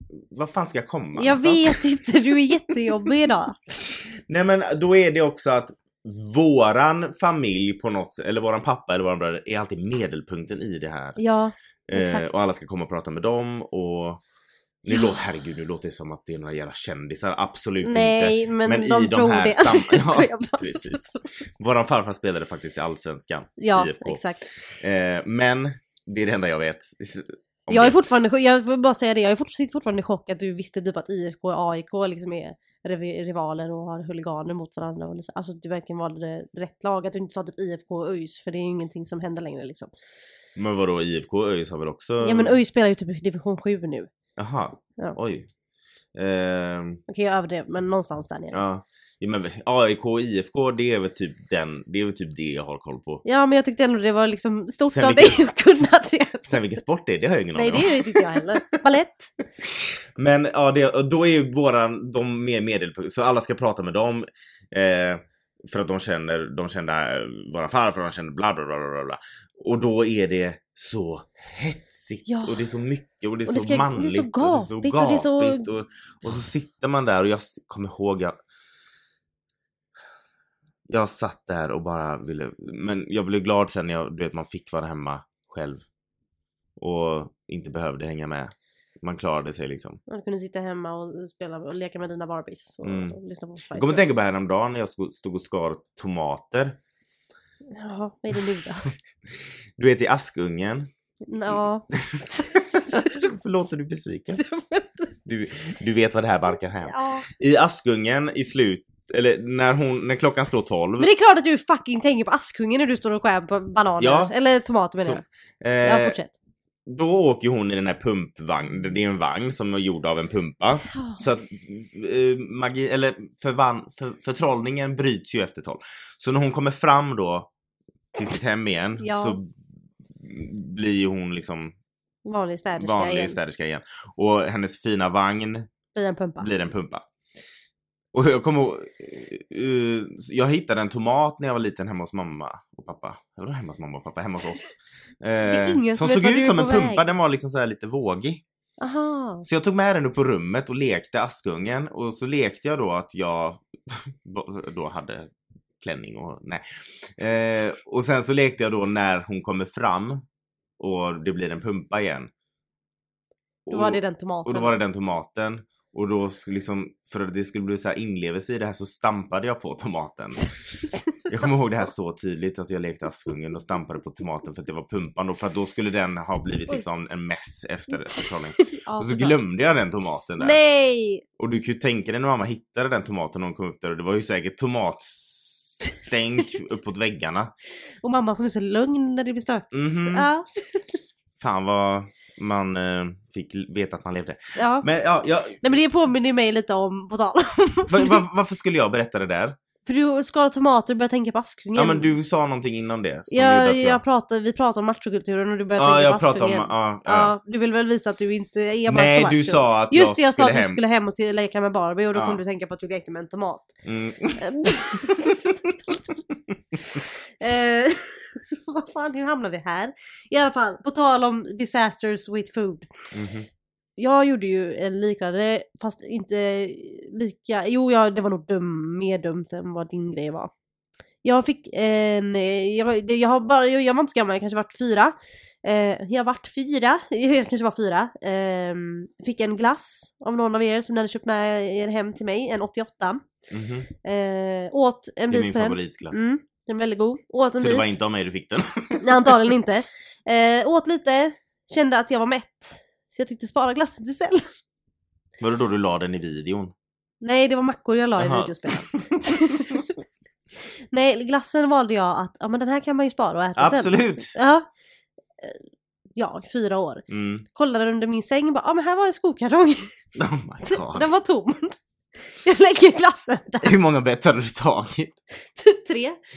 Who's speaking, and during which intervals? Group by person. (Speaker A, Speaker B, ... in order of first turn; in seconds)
Speaker A: 0.3-2.1, 4.3-11.2, 11.9-14.2, 14.8-28.0, 40.5-42.6, 44.4-45.5, 46.1-47.0, 48.5-53.2, 54.9-55.5, 56.5-58.8, 59.6-78.3, 80.9-85.8, 86.8-90.0, 92.8-93.2, 93.7-96.8, 99.8-100.9, 101.5-104.4, 105.2-111.1, 114.0-114.3, 115.0-116.2, 116.8-127.5, 128.1-129.5, 130.2-131.7, 132.8-135.7, 136.4-137.0, 138.1-148.4, 149.4-160.2, 160.8-162.3, 163.7-170.5, 171.3-180.6, 181.4-187.5, 189.7-190.3, 191.4-195.6, 197.9-199.6, 201.7-204.0, 205.8-207.3, 208.9-210.8, 212.1-212.4, 213.8-215.8, 223.1-223.5, 243.5-243.9, 245.3-246.2, 247.6-249.4, 255.4-256.7, 258.2-259.0, 263.6-264.4, 267.1-267.4, 270.1-271.1, 273.6-275.2
Speaker B: 1.1-3.6, 11.2-12.3, 14.9-15.1, 17.8-21.2, 23.6-24.4, 27.7-39.9, 42.2-44.1, 47.1-48.6, 53.2-56.6, 57.5-59.3, 72.2-72.6, 73.5-75.7, 90.1-94.1, 97.7-98.9, 101.3-103.2, 104.4-105.1, 106.9-107.2, 111.0-115.2, 115.8-116.3, 120.9-121.2, 129.0-129.4, 132.2-133.4, 135.9-136.5, 145.4-147.0, 148.8-149.4, 163.7-164.7, 170.9-171.9, 178.1-179.4, 180.4-181.2, 188.0-190.9, 194.6-194.9, 195.6-198.2, 199.8-202.1, 203.3-213.7, 214.4-215.4, 216.9-222.9, 224.0-230.5, 231.2-243.2, 244.0-247.9, 249.0-254.4, 257.2-259.9, 260.9-264.7, 266.1-269.9, 270.6-273.8, 275.4-276.2